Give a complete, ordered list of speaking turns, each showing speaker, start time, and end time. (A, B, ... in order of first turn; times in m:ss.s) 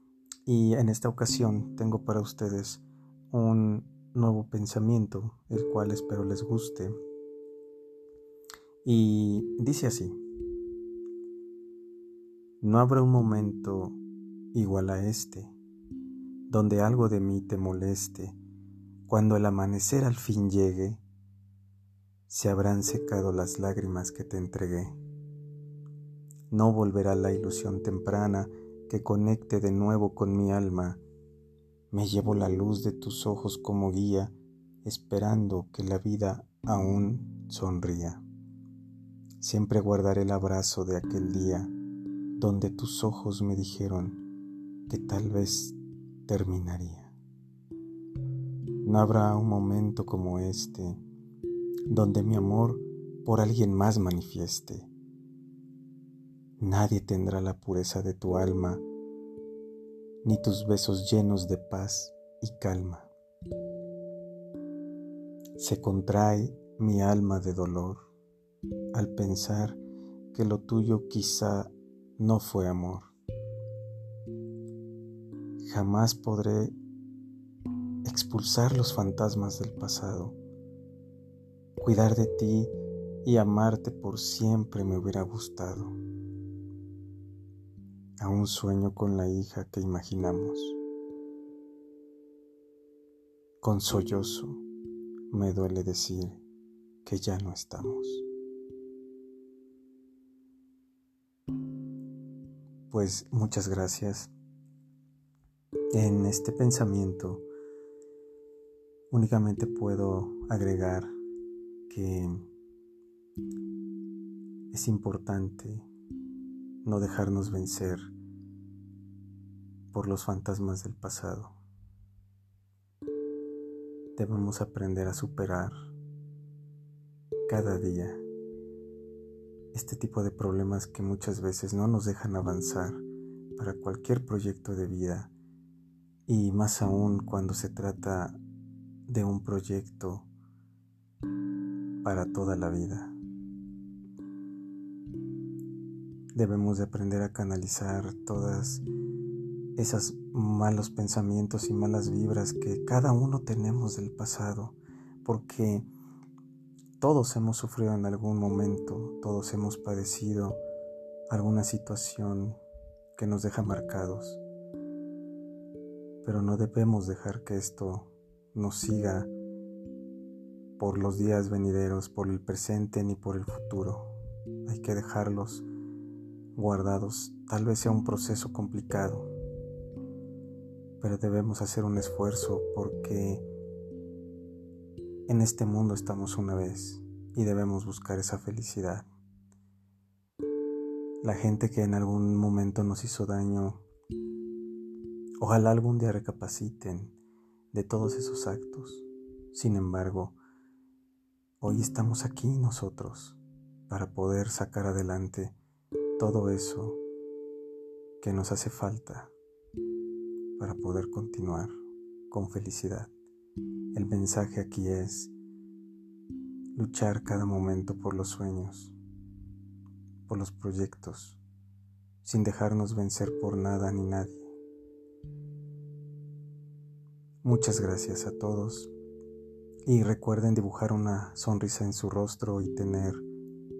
0:00.5-0:07.0 A
0:08.8-0:10.2 A
0:12.6-0:14.0 A
0:14.5-0:15.6 A
0:16.5-0:18.4 A
0:19.1-0:21.0 A
0:22.3-0:25.0 A
0:26.5-0:31.0 A
0:31.9-0:38.2 A
0:39.4-0:41.7 A
0:42.4-0:44.2 A
0:44.9-0:45.8 A
0:46.3-0:47.1 A
0:48.8-0:51.0 A
0:51.9-0:54.9 A
0:56.6-0:58.8 A
1:00.2-1:03.1 A
1:05.6-1:08.0 A
1:08.9-1:09.8 A
1:10.3-1:13.1 A
1:15.6-1:16.8 A
1:18.0-1:20.4 A
1:21.8-1:26.0 A
1:28.2-1:30.8 A
1:33.6-1:34.6 A
1:35.3-1:36.4 A
1:37.0-1:38.2 A
1:42.9-1:44.3 A
1:45.9-1:47.5 A
1:49.1-1:51.1 A
1:51.9-1:52.4 A
1:54.7-1:55.9 A
1:56.8-1:58.1 A
1:59.9-2:01.6 A
2:04.2-2:05.9 A
2:07.5-2:08.2 A
2:09.7-2:13.0 A
2:13.6-2:15.3 A
2:16.3-2:18.4 A
2:19.1-2:20.3 A
2:22.0-2:23.2 A
2:26.4-2:28.8 A
2:29.8-2:35.9 A
2:37.0-2:40.6 A
2:41.3-2:42.6 A
2:43.2-2:44.4 A
2:46.2-2:49.3 A
2:50.8-2:55.7 A
2:56.6-2:59.3 A
3:01.0-3:03.5 A
3:05.3-3:09.1 A
3:11.2-3:13.8 A
3:15.4-3:17.2 A
3:17.7-3:20.4 A
3:21.6-3:25.6 A
3:26.2-3:27.0 A
3:28.2-3:29.3 A
3:30.6-3:31.8 A
3:32.3-3:33.1 A
3:33.9-3:35.3 A
3:36.8-3:39.0 A
3:40.3-3:41.4 A
3:42.2-3:44.5 A
3:47.4-3:48.9 A
3:49.9-3:53.2 A